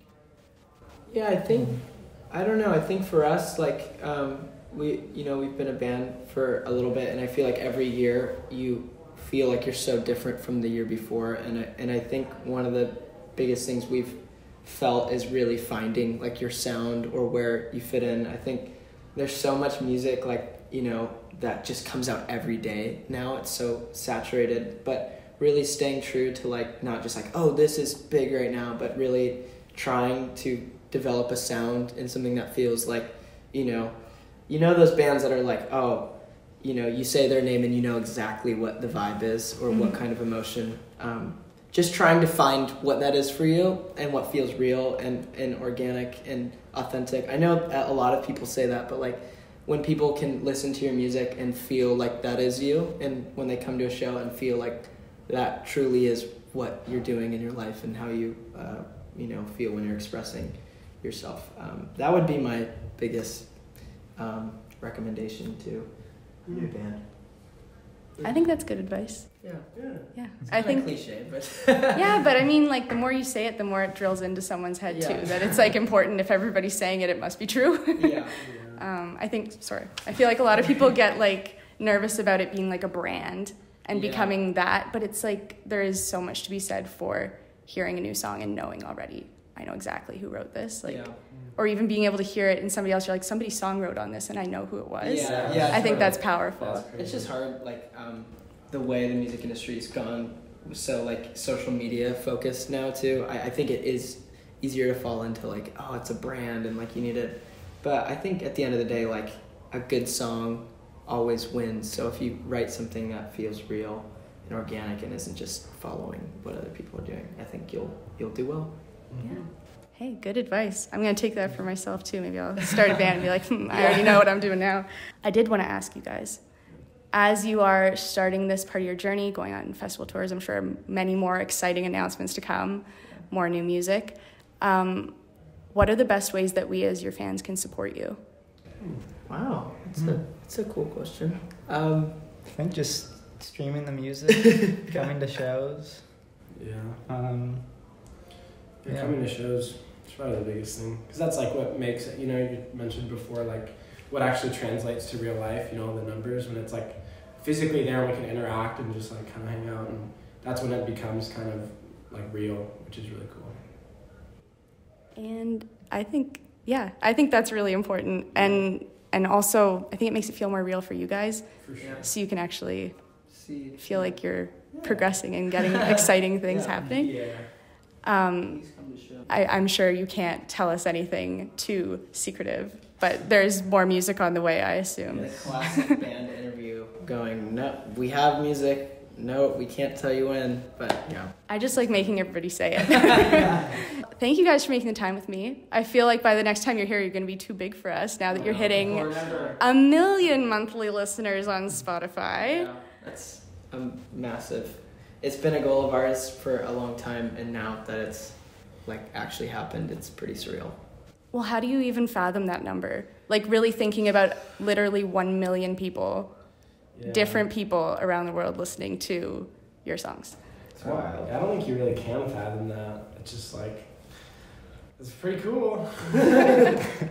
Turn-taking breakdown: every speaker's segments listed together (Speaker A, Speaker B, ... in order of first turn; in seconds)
Speaker A: 1.1-67.1, 68.2-68.5, 69.4-72.1, 74.9-75.7, 78.0-78.3, 83.9-84.3, 90.8-91.2, 95.0-119.2, 139.2-142.4, 171.8-172.1, 173.3-175.8, 176.4-176.8, 178.4-179.3, 185.1-192.1, 198.4-199.6, 202.3-210.8, 220.7-221.3
Speaker B: 1.5-1.8, 142.5-146.2, 147.1-148.0, 148.8-149.1
Speaker C: 39.7-40.0, 68.2-71.2, 71.9-96.8, 119.2-138.2, 165.1-185.9, 191.5-202.7, 211.3-220.5
Speaker D: 66.5-66.7, 69.7-70.1, 78.4-78.8, 91.3-91.5, 95.1-97.3, 119.1-119.5, 138.8-139.1, 146.5-147.0, 148.8-163.6, 168.3-168.7, 171.6-172.1, 176.8-177.5, 185.2-185.6, 198.3-199.6, 216.9-217.5, 220.8-226.7